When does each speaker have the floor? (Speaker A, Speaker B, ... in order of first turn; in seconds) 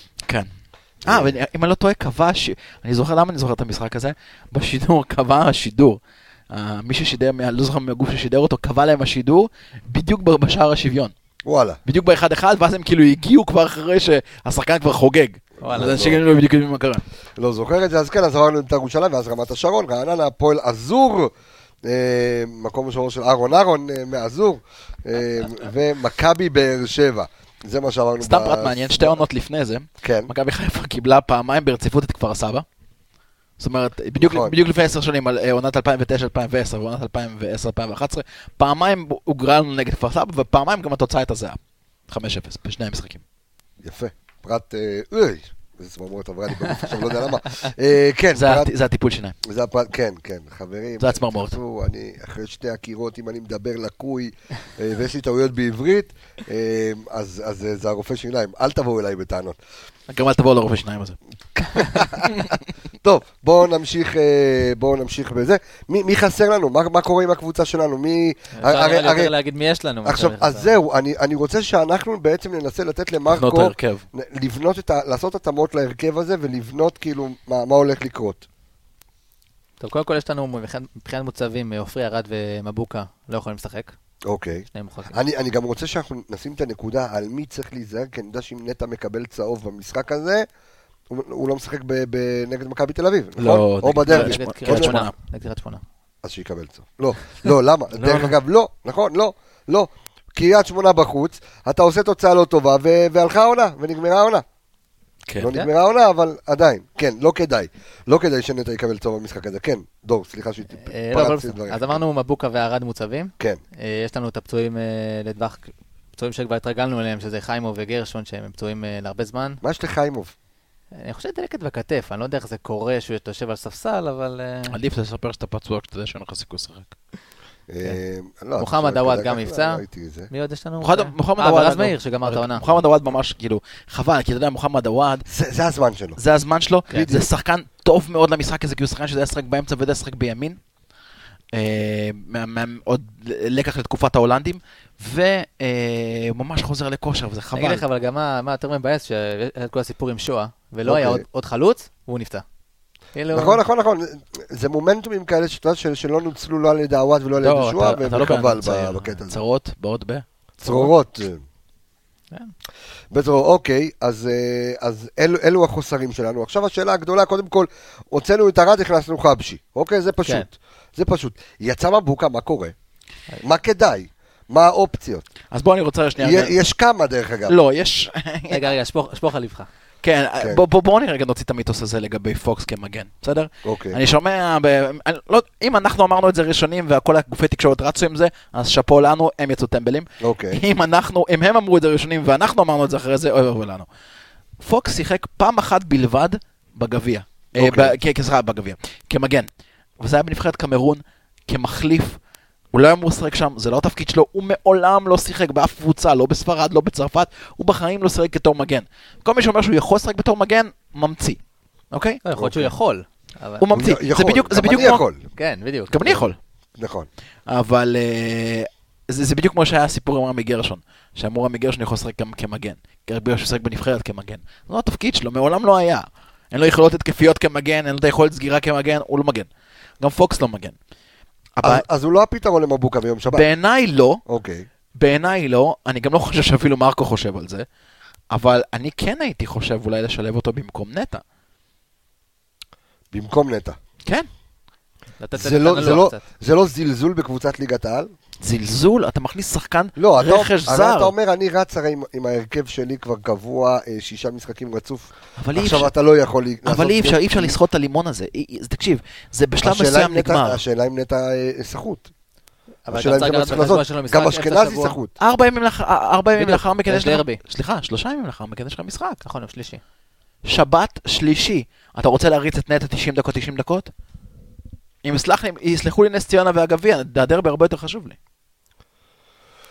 Speaker A: 0.2-0.5, 1.1-11.1, 11.9-17.0, 28.2-32.6, 33.6-43.2, 48.3-49.4, 51.0-51.6, 60.1-61.2, 61.7-62.5, 73.3-74.0, 93.4-95.1, 97.9-98.3, 105.3-105.6, 124.7-126.9, 130.8-135.2, 136.2-140.6, 141.5-147.8, 157.4-160.9, 175.5-176.6, 177.5-178.7, 180.0-193.9, 194.6-199.5, 200.0-202.2, 202.7-211.4, 211.9-212.2, 213.6-215.0, 215.9-216.4, 217.5-229.5, 230.0-230.8, 231.6-231.8, 233.3-234.2, 235.0-237.7, 238.3-241.2, 248.4-251.1, 255.4-255.9, 256.6-260.6, 265.2-269.2, 270.4-273.9, 275.0-278.2
Speaker B: 1.1-1.4, 11.5-11.8, 15.7-16.2, 17.4-21.3, 21.8-29.2, 30.0-30.3, 34.2-34.6, 43.8-48.7, 49.4-59.6, 61.7-62.4, 63.0-69.3, 70.0-78.5, 84.3-90.5, 91.1-95.0, 96.2-104.4, 105.4-112.0, 119.6-120.3, 127.7-130.3, 135.3-136.2, 136.9-137.3, 150.8-151.2, 153.3-159.4, 160.6-161.4, 163.1-172.7, 173.4-175.3, 176.2-177.6, 183.6-184.0, 190.2-190.6, 197.5-197.9, 212.4-212.7, 213.7-215.2, 216.8-217.1, 231.6-233.4, 234.3-234.7, 243.1-243.8, 245.3-248.1, 250.0-257.6, 259.6-262.1, 262.9-265.1
Speaker C: 15.6-16.0, 68.6-70.8, 79.8-83.9, 84.7-85.1, 94.1-95.8, 110.8-119.6, 121.0-124.8, 128.6-132.7, 147.5-152.4, 153.1-153.6, 178.5-179.7, 212.2-213.7, 215.4-216.0, 245.2-246.2, 262.9-265.0, 266.4-267.4, 269.2-269.8